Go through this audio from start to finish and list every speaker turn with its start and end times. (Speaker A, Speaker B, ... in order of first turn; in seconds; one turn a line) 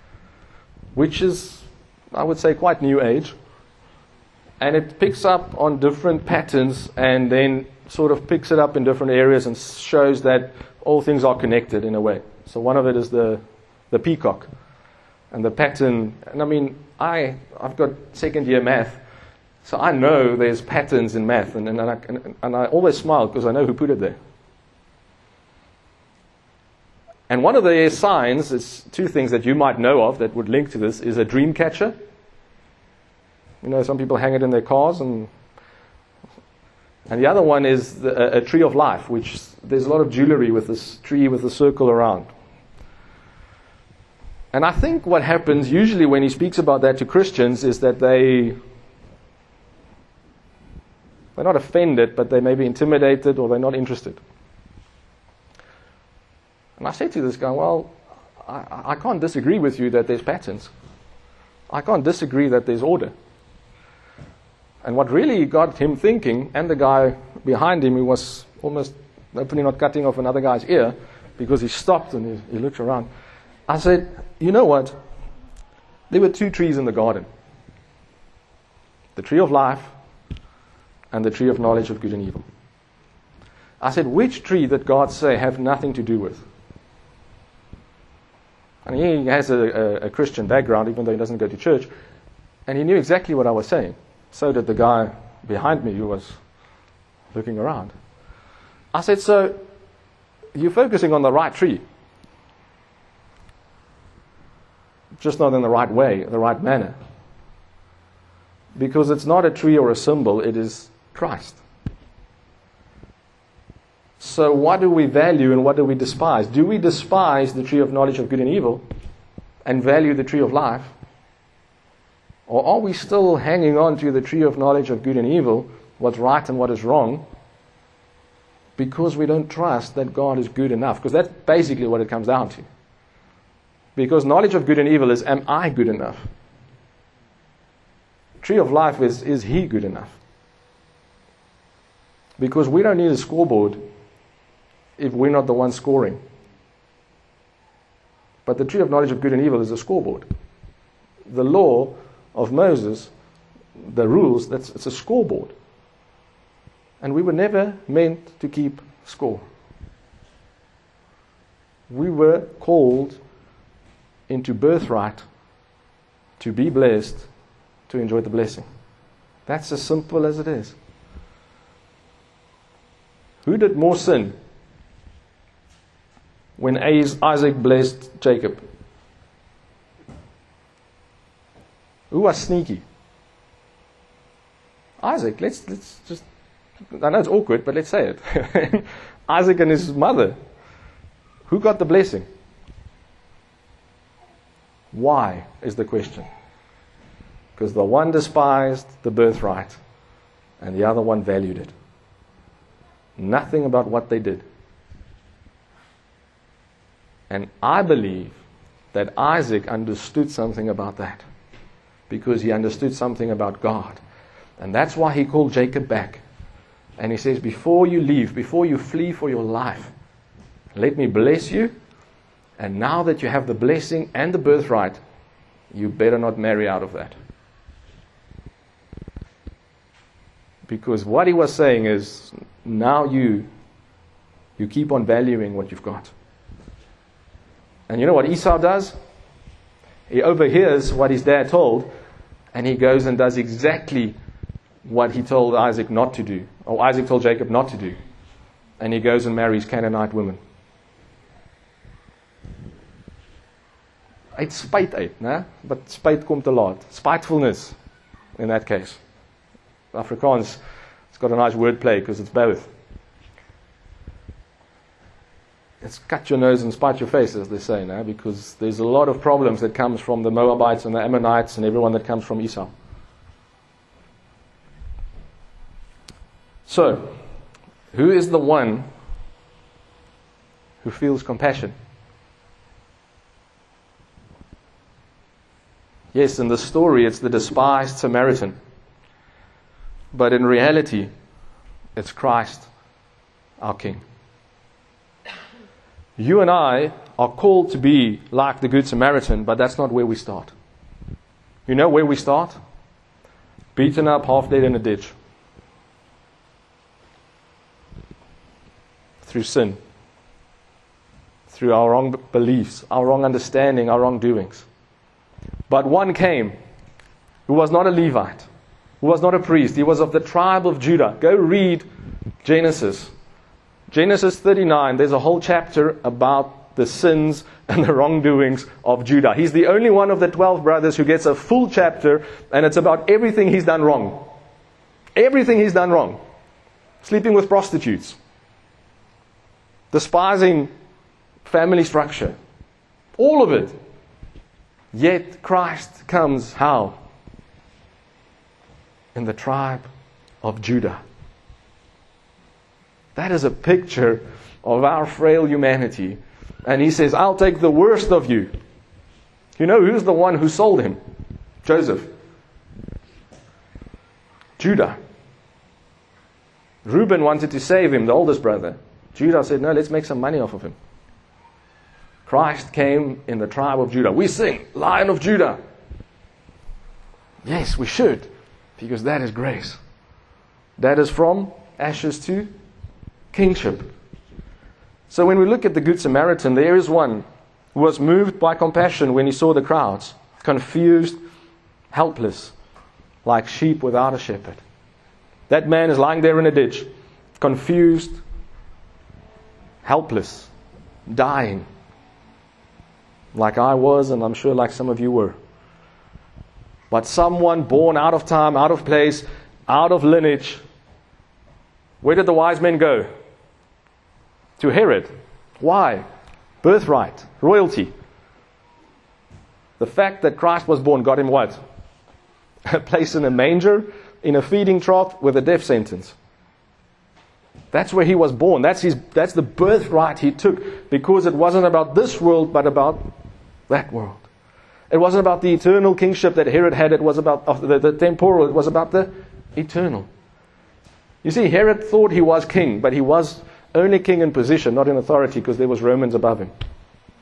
Speaker A: 0.9-3.4
Speaker A: 4.6-14.5
Speaker A: 15.3-19.0
Speaker A: 19.6-24.2
Speaker A: 27.3-31.9
Speaker A: 33.6-35.3
Speaker A: 37.1-42.3
Speaker A: 44.5-48.6
Speaker A: 51.4-54.2
Speaker A: 56.8-60.7
Speaker A: 61.7-63.1
Speaker A: 64.8-73.1
Speaker A: 73.7-75.0
Speaker A: 76.1-77.3
Speaker A: 79.2-79.9
Speaker A: 81.1-82.5
Speaker A: 83.8-86.4
Speaker A: 88.9-91.9
Speaker A: 92.7-96.4
Speaker A: 97.3-97.9
Speaker A: 98.9-99.6
Speaker A: 100.5-101.8
Speaker A: 105.2-107.0
Speaker A: 108.8-111.6
Speaker A: 114.2-118.8
Speaker A: 119.7-120.9
Speaker A: 122.5-127.2
Speaker A: 128.8-132.7
Speaker A: 134.0-136.3
Speaker A: 138.4-140.2
Speaker A: 142.4-143.8
Speaker A: 145.0-146.2
Speaker A: 148.4-150.3
Speaker A: 151.3-153.1
Speaker A: 153.8-155.5
Speaker A: 157.0-159.4
Speaker A: 161.9-163.2
Speaker A: 164.3-165.2
Speaker A: 166.4-167.3
Speaker A: 167.9-168.7
Speaker A: 169.5-170.8
Speaker A: 173.4-174.3
Speaker A: 176.6-178.6
Speaker A: 182.1-182.8
Speaker A: 185.0-186.2
Speaker A: 186.9-190.4
Speaker A: 191.5-192.3
Speaker A: 194.9-196.3
Speaker A: 197.6-199.8
Speaker A: 200.6-201.7
Speaker A: 203.2-204.4
Speaker A: 207.3-208.4
Speaker A: 208.9-211.2
Speaker A: 212.1-214.0
Speaker A: 214.6-216.2
Speaker A: 217.0-219.9
Speaker A: 220.8-221.7
Speaker A: 222.6-225.0
Speaker A: 225.7-227.2
Speaker A: 230.7-233.5
Speaker A: 234.6-236.1
Speaker A: 237.9-238.9
Speaker A: 240.1-241.9
Speaker A: 242.5-244.2
Speaker A: 244.8-248.0
Speaker A: 248.8-250.4
Speaker A: 254.4-257.8
Speaker A: 258.4-259.0
Speaker A: 259.9-260.6
Speaker A: 261.1-262.7
Speaker A: 265.8-272.7
Speaker A: 276.7-277.1
Speaker A: 277.9-278.9
Speaker A: 280.8-281.8
Speaker A: 286.1-288.6
Speaker A: 290.1-291.1
Speaker A: 292.0-292.7
Speaker A: 293.6-294.0
Speaker A: 296.2-300.5
Speaker A: 301.7-302.6
Speaker A: 303.8-305.1
Speaker A: 309.2-309.8
Speaker A: 311.5-314.7
Speaker A: 315.7-316.6
Speaker A: 317.5-318.5
Speaker A: 319.0-321.9
Speaker A: 322.4-323.1
Speaker A: 323.9-334.2
Speaker A: 335.2-336.2
Speaker A: 337.0-338.2
Speaker A: 339.9-340.7
Speaker A: 341.4-342.4
Speaker A: 343.2-343.8
Speaker A: 344.9-347.0
Speaker A: 349.1-349.9
Speaker A: 350.4-351.0
Speaker A: 353.1-358.5
Speaker A: 359.6-361.0
Speaker A: 361.6-362.1
Speaker A: 364.6-365.0
Speaker A: 366.9-370.8
Speaker A: 372.3-375.6
Speaker A: 377.4-379.8
Speaker A: 380.8-382.5
Speaker A: 383.3-383.9
Speaker A: 385.1-391.2
Speaker A: 391.9-392.5
Speaker A: 393.2-394.6
Speaker A: 395.5-396.9
Speaker A: 397.4-398.2
Speaker A: 399.8-400.5
Speaker A: 401.1-401.7
Speaker A: 403.3-405.4
Speaker A: 406.9-410.6
Speaker A: 412.0-413.1
Speaker A: 414.6-416.0
Speaker A: 416.6-417.9
Speaker A: 419.8-421.6
Speaker A: 422.7-426.2
Speaker A: 427.7-433.1
Speaker A: 433.7-434.3
Speaker A: 434.9-440.1
Speaker A: 441.2-446.5